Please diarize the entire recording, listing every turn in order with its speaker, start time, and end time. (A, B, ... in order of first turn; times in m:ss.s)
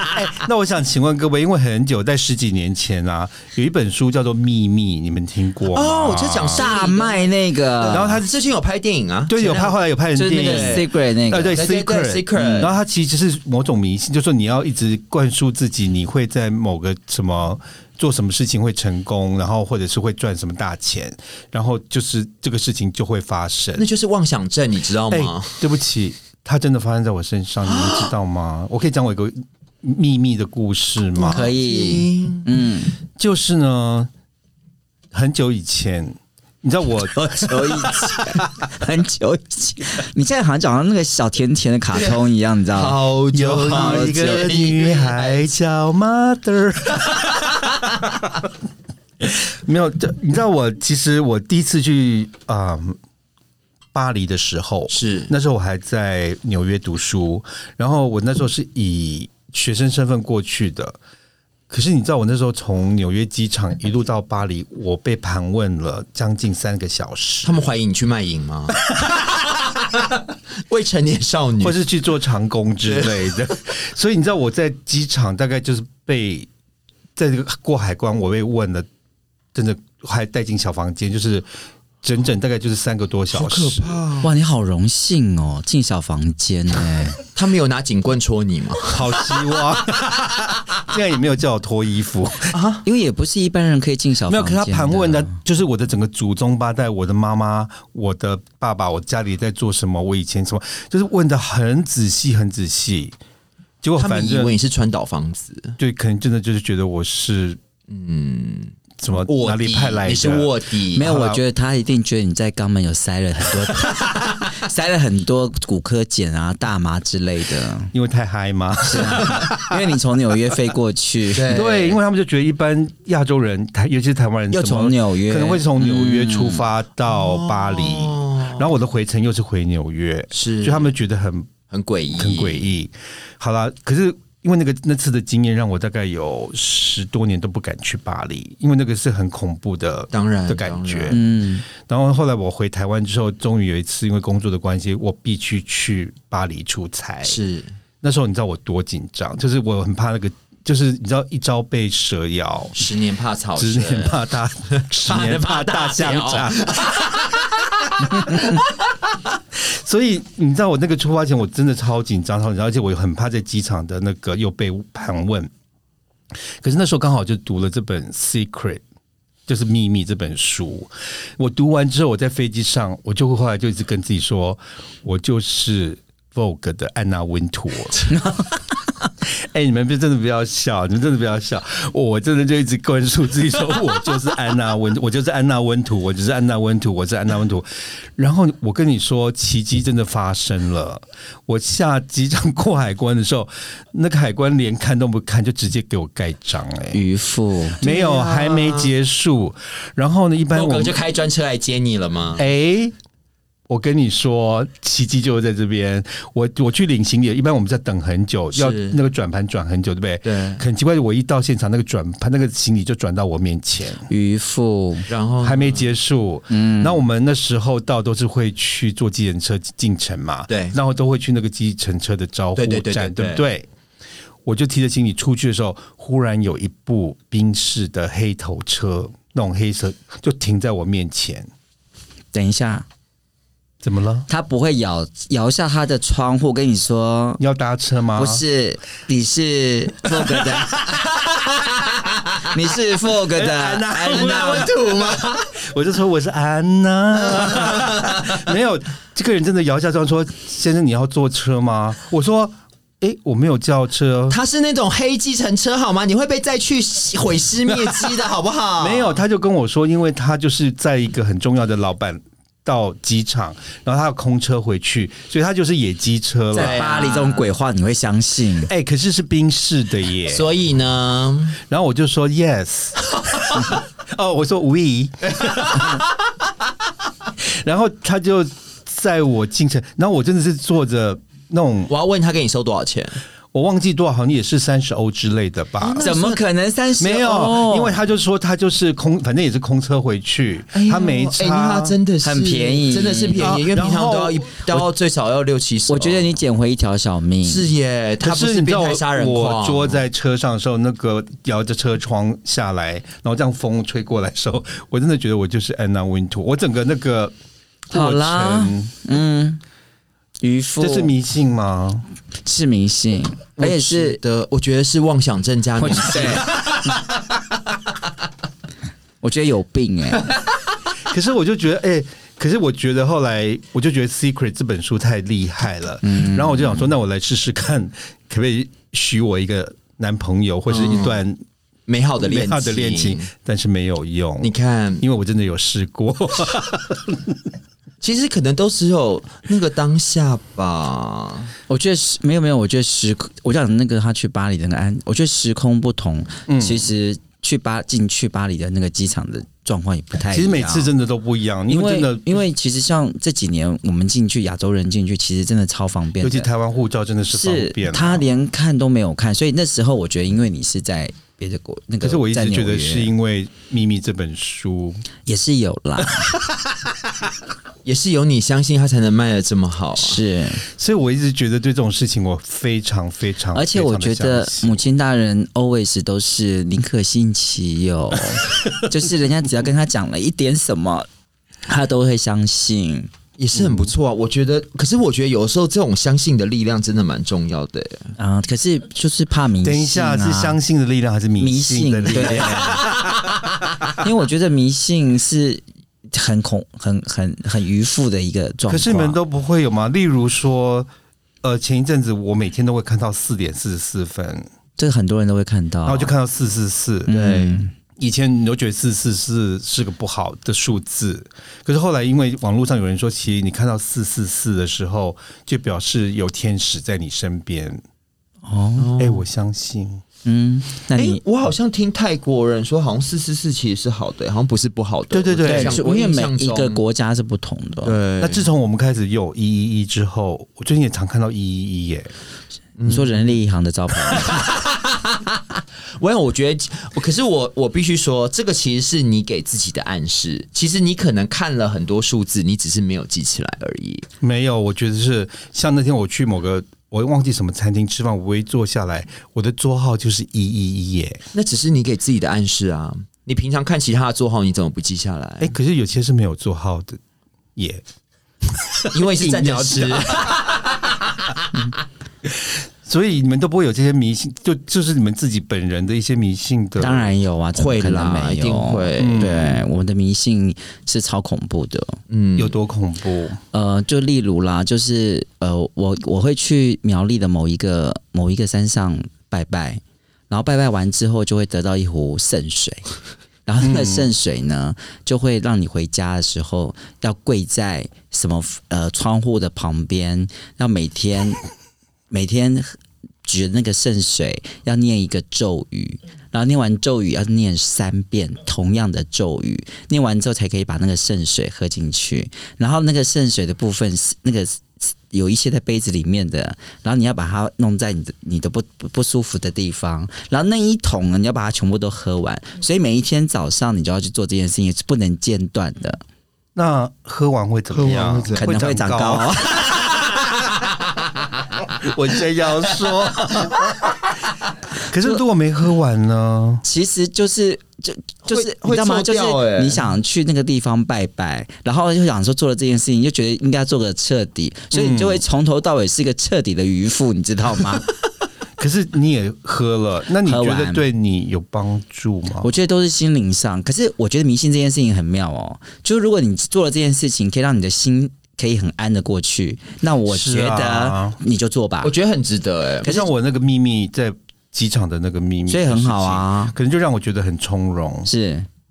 0:00.1-0:06.6 A
0:05.7-0:09.8 B
0:06.5-0:08.1 C
0:07.9-0:08.3 A
0:09.3-0:23.9 A
0:10.1-0:11.6 C
0:10.3-0:10.8 B
0:11.5-0:12.8 B
0:23.8-0:25.6 B
0:25.1-0:31.5 A
0:27.6-0:28.1 B
0:31.2-0:32.5 B
0:31.3-0:32.9 C
0:33.2-0:34.1 A
0:35.1-0:38.7 A
0:37.2-0:43.0 C
0:41.9-0:42.2 B
0:42.7-0:45.5 B
0:43.3-0:48.3 A
0:43.6-0:44.5 C
0:49.2-0:53.0 A
0:53.9-1:01.0 A
0:54.9-0:55.3 B
1:01.7-1:07.6 A
1:07.4-1:10.1 B
1:10.7-1:11.8 B
1:11.6-1:16.5 A
1:12.9-1:13.2 B
1:17.2-1:18.9 A
1:19.5-1:21.5 A
1:22.0-1:24.0 A
1:23.3-1:24.3 B
1:24.2-1:27.2 C
1:27.3-1:29.3 B
1:28.8-1:32.5 A
1:32.5-1:32.8 B
1:32.8-1:35.4 C
1:34.3-1:43.2 A
1:43.8-1:44.5 A
1:44.0-1:45.8 B
1:45.8-1:47.6 A
1:47.9-1:48.7 B
1:49.0-1:51.4 A
1:49.2-1:51.2 B
1:50.9-1:57.9 C
1:57.9-1:59.6 A
1:58.9-2:01.5 C
2:01.3-2:02.0 B
2:01.5-2:11.5 A
2:04.5-2:06.6 C
2:07.1-2:08.6 B
2:10.3-2:10.9 B
2:11.7-2:12.6 B
2:12.1-2:27.4 A
2:20.1-2:21.3 B
2:21.1-2:21.6 C
2:27.2-2:27.7 B
2:28.0-2:32.9 A
2:32.8-2:34.2 B
2:33.6-2:37.1 A
2:34.7-2:38.5 B
2:38.0-2:38.6 A
2:39.5-2:45.5 A
2:46.6-2:48.8 A
2:49.5-2:58.2 A
2:58.1-2:58.4 C
2:59.2-3:17.0 A
3:16.9-3:17.8 C
3:17.8-3:18.9 B
3:17.8-3:21.0 A
3:20.5-3:22.4 B
3:22.4-3:22.9 A
3:23.7-3:34.1 A
3:28.5-3:29.0 B
3:30.2-3:30.6 B
3:34.1-3:35.1 C
3:35.1-3:35.9 B
3:35.4-3:43.7 A
3:36.5-3:37.0 C
3:40.5-3:40.8 B
3:42.6-3:43.4 B
3:44.4-3:51.5 A
3:52.3-3:52.8 C
3:53.8-3:54.3 A
3:54.3-3:57.4 C
3:57.4-3:58.4 A
3:58.1-4:00.7 C
4:00.1-4:01.0 A
4:02.4-4:04.7 C
4:03.3-4:14.4 A
4:04.2-4:05.4 B
4:07.3-4:08.3 B
4:14.3-4:19.2 B
4:17.7-4:18.2 A
4:18.8-4:26.8 A
4:26.5-4:27.5 B
4:26.5-4:28.7 C
4:28.6-4:30.5 A
4:30.3-4:31.6 B
4:31.6-4:36.0 A
4:35.3-4:36.0 B
4:37.4-4:41.9 A
4:41.9-4:43.2 B
4:43.5-4:46.1 A
4:45.8-4:46.4 B
4:46.0-4:48.0 C
4:47.0-4:52.0 A
4:50.7-4:56.4 B
4:52.2-4:53.6 C
4:53.4-4:54.9 A
4:55.9-4:57.7 C
4:57.4-5:00.0 B
4:58.2-5:07.3 A
5:07.9-5:08.9 A
5:07.9-5:09.6 C
5:10.4-5:11.1 C
5:10.8-5:12.0 A
5:12.4-5:14.2 C
5:13.6-5:16.9 B
5:15.8-5:16.6 C
5:19.2-5:20.3 C
5:21.0-5:31.4 A
5:26.0-5:26.8 C
5:30.7-5:31.2 B
5:31.9-5:33.3 B
5:32.2-5:37.4 A
5:34.4-5:35.0 B
5:38.0-5:41.5 B
5:41.7-5:50.9 C
5:46.5-5:46.9 A
5:50.3-5:52.4 A
5:51.7-5:56.5 C
5:56.2-5:58.2 A
5:57.3-6:03.1 C
6:02.0-6:05.0 A
6:05.2-6:06.3 C
6:07.8-6:10.2 B
6:10.0-6:10.6 C
6:10.6-6:14.8 A
6:13.5-6:21.1 C
6:21.7-6:23.1 C
6:23.4-6:28.1 B
6:23.5-6:23.9 A
6:28.2-6:30.6 C
6:29.6-6:32.9 A
6:31.4-6:32.8 C
6:32.1-6:33.3 B
6:34.0-6:39.2 C
6:38.7-6:40.9 A
6:41.4-6:44.5 A
6:44.8-6:46.1 C
6:45.8-6:47.1 A
6:47.1-6:47.7 C
6:47.1-6:47.6 B
6:48.0-6:57.8 A
6:58.4-6:58.9 C
6:58.8-6:59.2 B
6:59.0-7:00.0 A
7:00.2-7:01.2 C
7:00.9-7:06.8 B
7:05.1-7:05.8 A
7:05.4-7:07.9 C
7:07.8-7:08.5 B
7:08.2-7:12.1 A
7:12.8-7:13.3 B
7:12.9-7:14.4 C
7:14.1-7:24.1 B
7:24.2-7:31.2 A
7:31.3-7:35.5 B
7:35.4-7:37.0 A
7:37.6-7:37.8 A
7:38.4-7:40.5 A
7:38.9-7:41.3 B
7:42.2-7:47.1 A
7:46.8-7:52.0 C
7:47.6-7:49.6 B
7:49.0-7:49.6 A
7:52.1-7:52.5 B
7:52.4-7:53.4 A
7:53.5-8:02.8 C
8:03.4-8:11.4 C
8:03.6-8:04.1 A
8:12.1-8:36.0 C
8:36.5-8:39.8 A
8:37.7-8:38.6 B
8:38.4-8:39.8 C
8:39.7-8:41.6 B
8:41.8-8:44.0 A
8:44.9-8:46.6 A
8:46.6-8:57.9 C
8:48.2-8:49.8 B
8:54.7-8:55.2 A
8:58.6-9:02.5 A
9:00.2-9:00.9 C
9:02.4-9:11.9 C
9:10.1-9:11.2 A
9:11.8-9:13.0 B
9:12.8-9:18.1 A
9:15.5-9:16.5 C
9:18.0-9:18.5 C